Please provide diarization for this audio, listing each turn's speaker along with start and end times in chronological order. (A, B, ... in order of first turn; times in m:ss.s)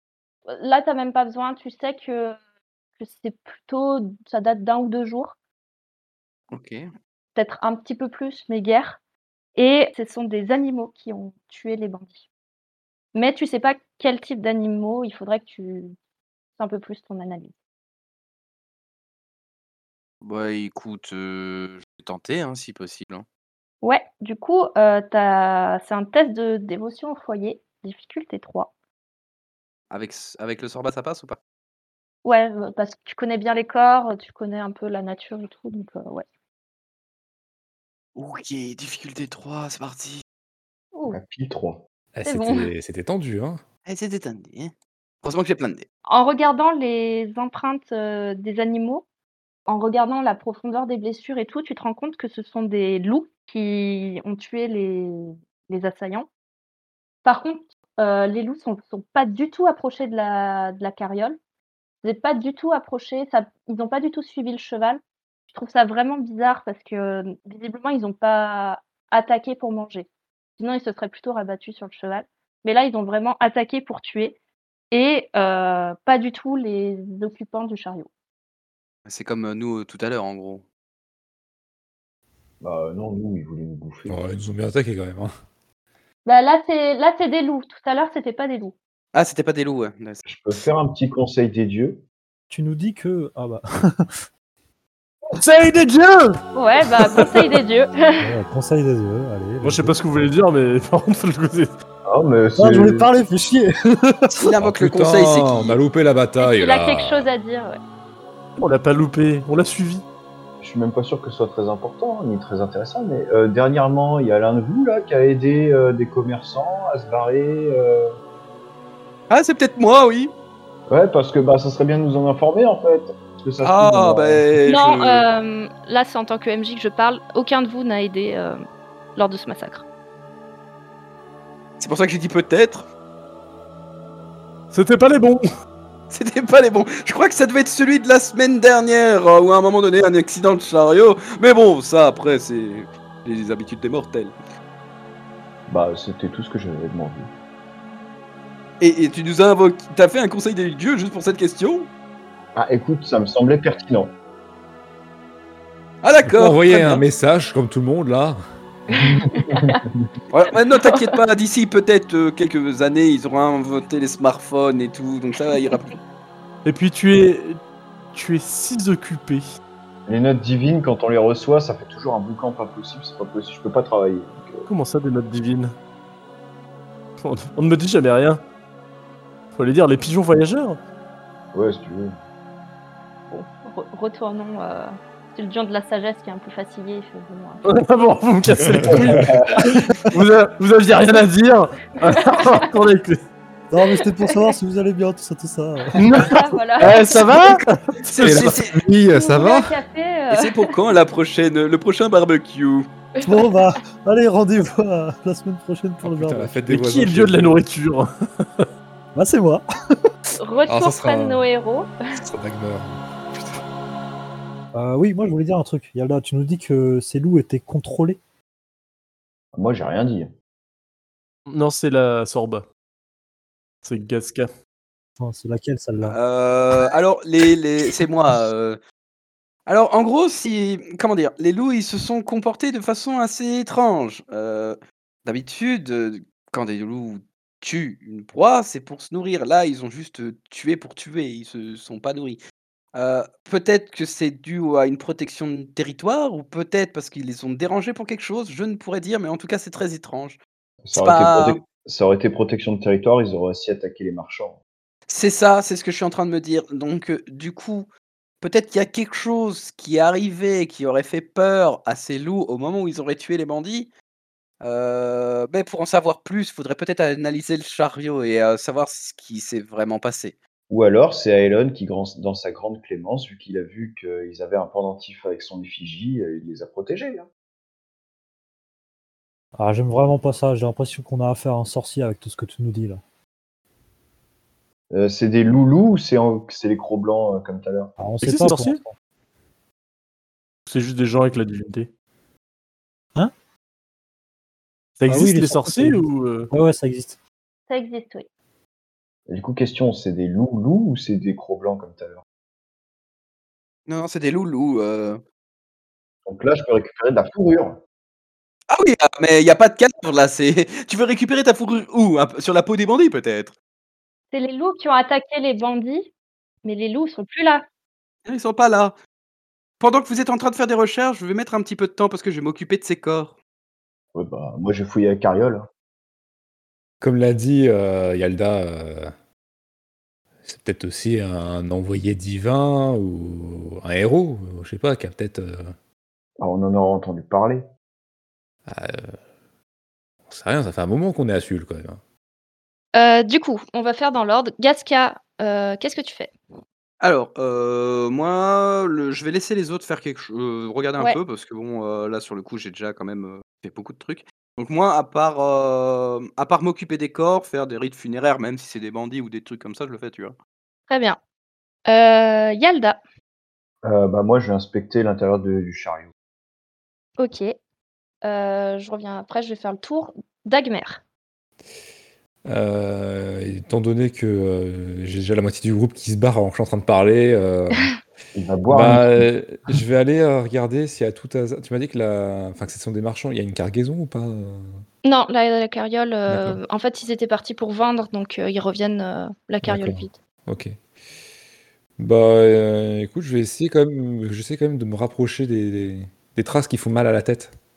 0:00.5-0:02.4 A
0:03.0-0:05.4 A
0:06.5-0:06.9 B
0:07.4-0:09.0 A
0:09.6-0:12.2 A
0:13.1-0:16.0 A
0:16.6-0:17.5 A
0:20.2-0:23.2 B
0:23.8-0:28.7 A
0:29.9-0:31.4 B
0:32.2-0:36.2 A
0:38.2-0:40.2 B
0:40.9-0:41.2 A
0:41.1-0:41.8 C
0:42.1-0:43.6 D
0:42.2-0:42.7 A
0:43.9-0:44.7 B
0:45.2-0:45.9 B
0:46.1-0:49.0 A
0:49.7-0:56.3 A
0:57.2-1:01.4 A
1:02.0-1:05.0 A
1:05.5-1:14.4 A
1:14.9-1:18.1 A
1:19.1-1:20.6 B
1:22.6-1:24.2 C
1:24.1-1:25.3 D
1:26.2-1:28.7 A
1:29.1-1:30.2 B
1:30.2-1:32.0 C
1:32.5-1:34.2 E
1:35.4-1:36.4 F
1:36.6-1:38.3 A
1:37.1-1:37.6 F
1:38.2-1:40.0 E
1:39.6-1:41.7 F
1:42.1-1:43.1 C
1:42.6-1:44.4 E
1:44.3-1:45.8 B
1:44.6-1:47.3 D
1:46.4-1:47.8 A
1:48.6-1:50.0 F
1:50.6-1:58.1 C
1:59.3-2:00.3 B
2:00.9-2:04.4 C
2:03.6-2:05.2 B
2:04.7-2:08.6 A
2:09.2-2:09.8 A
2:11.8-2:12.9 B
2:14.7-2:15.4 F
2:16.1-2:24.4 B
2:25.7-2:27.3 C
2:28.8-2:31.9 B
2:32.6-2:34.1 C
2:36.0-2:37.0 B
2:36.3-2:38.4 D
2:38.9-2:39.8 A
2:39.0-2:40.1 C
2:40.3-2:46.0 B
2:40.8-2:41.2 A
2:46.6-2:47.6 F
2:48.1-2:49.4 F
2:50.1-2:54.6 C
2:54.7-2:55.7 F
2:57.2-2:58.4 F
2:59.6-3:00.8 F
3:01.5-3:02.2 C
3:03.3-3:07.6 A
3:07.6-3:13.2 F
3:08.6-3:09.0 D
3:08.9-3:09.8 C
3:12.1-3:12.6 A
3:13.7-3:16.0 E
3:13.9-3:14.5 A
3:16.0-3:18.5 F
3:16.2-3:17.2 A
3:18.0-3:18.8 B
3:18.2-3:19.8 D
3:19.1-3:20.7 A
3:20.3-3:22.9 B
3:23.2-3:23.6 A
3:23.2-3:26.6 E
3:26.0-3:27.6 D
3:26.7-3:28.7 F
3:29.2-3:29.6 E
3:30.4-3:31.9 A
3:30.7-3:31.5 D
3:32.2-3:33.6 D
3:34.7-3:38.2 E
3:39.5-3:40.3 C
3:41.5-3:42.7 F
3:43.8-3:44.5 F
3:45.2-3:46.2 E
3:46.1-3:48.8 B
3:49.7-4:02.4 B
4:02.9-4:10.4 B
4:10.8-4:14.6 C
4:11.0-4:11.6 B
4:15.1-4:17.9 B
4:18.4-4:23.9 B
4:24.6-4:30.4 B
4:30.7-4:37.3 C
4:39.6-4:43.0 E
4:44.9-4:47.9 C
4:48.0-4:48.9 E
4:48.2-4:48.8 F
4:50.7-4:51.9 F
4:55.0-4:56.5 F
4:55.1-4:57.2 E
4:57.7-4:58.3 A
4:59.3-5:02.2 C
5:03.9-5:05.2 B
5:06.3-5:07.8 C
5:08.7-5:13.6 B
5:14.3-5:16.1 A
5:16.6-5:17.6 A
5:18.3-5:19.0 B
5:19.8-5:23.4 B
5:24.1-5:25.7 C
5:27.0-5:29.1 D
5:30.5-5:35.7 D
5:36.4-5:37.6 C
5:38.7-5:39.2 D
5:40.3-5:42.0 D
5:42.9-5:46.3 A
5:47.0-6:00.4 B
6:00.9-6:01.2 A
6:01.9-6:03.0 A
6:03.8-6:06.1 C
6:07.2-6:07.6 A
6:08.2-6:11.0 A
6:12.5-6:18.0 D
6:18.4-6:19.3 C
6:18.7-6:24.8 D
6:25.0-6:30.2 A
6:26.3-6:26.6 D
6:29.6-6:30.8 D
6:32.0-6:37.5 D